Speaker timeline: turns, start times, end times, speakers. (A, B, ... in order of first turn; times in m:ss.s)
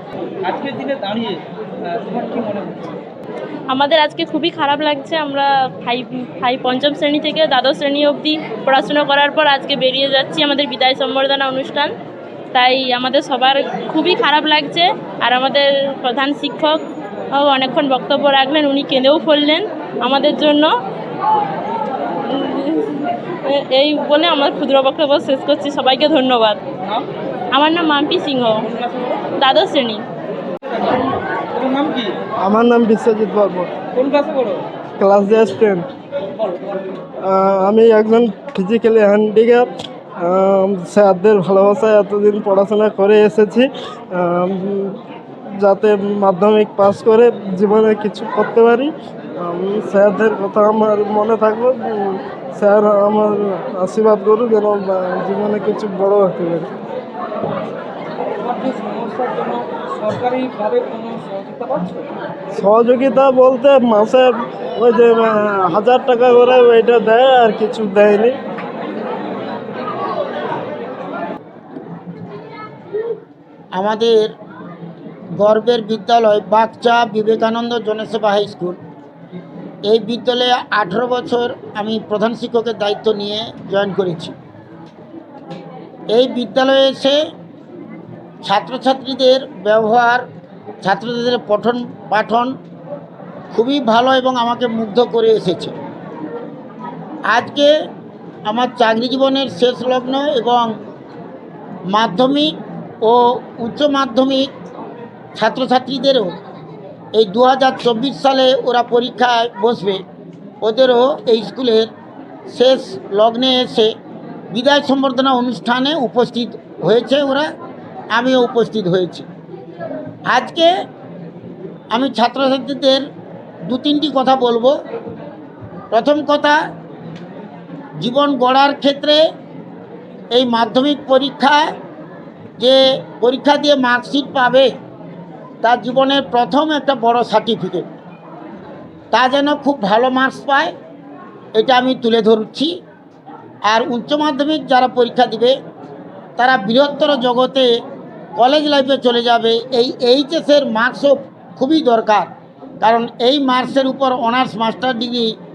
0:00.4-0:02.9 A
0:03.7-0:11.9 B
0:12.5-0:16.8 B
0:17.3-0:20.7 B
0:22.3-0:26.6 B
0:27.5-0:28.6 B
0:28.7-0:29.2 A
0:29.4-0:30.0 B
0:31.5-0:32.1 A
0:32.4-0:33.7 C
0:33.9-0:34.6 A
0:35.0-0:35.8 C
0:37.2-0:39.7 C
0:40.2-0:45.0 C
0:45.6-0:56.7 C
0:58.4-1:02.0 A
1:02.6-1:08.3 C
1:13.7-1:14.3 D
1:15.4-1:18.8 D
1:19.9-1:24.3 D
1:26.1-1:27.2 D
1:28.4-1:30.2 D
1:30.8-1:32.5 D
1:33.5-1:35.7 D
1:37.3-1:37.7 D
1:38.5-1:40.7 D
1:41.9-1:42.5 D
1:43.0-1:44.5 D
1:45.4-1:46.3 D
1:47.1-1:50.0 D
1:50.6-1:51.9 D
1:52.5-1:53.9 D
1:54.5-1:57.4 D
1:58.1-1:59.3 D
2:00.3-2:00.7 D
2:01.9-2:03.0 D
2:03.6-2:04.7 D
2:05.9-2:06.6 D
2:08.0-2:09.2 D
2:10.3-2:11.6 D
2:12.6-2:14.7 D
2:15.6-2:17.9 D
2:19.1-2:20.7 D
2:21.5-2:22.7 D
2:23.7-2:25.5 D
2:26.4-2:27.7 D
2:28.4-2:32.3 D
2:32.8-2:35.3 D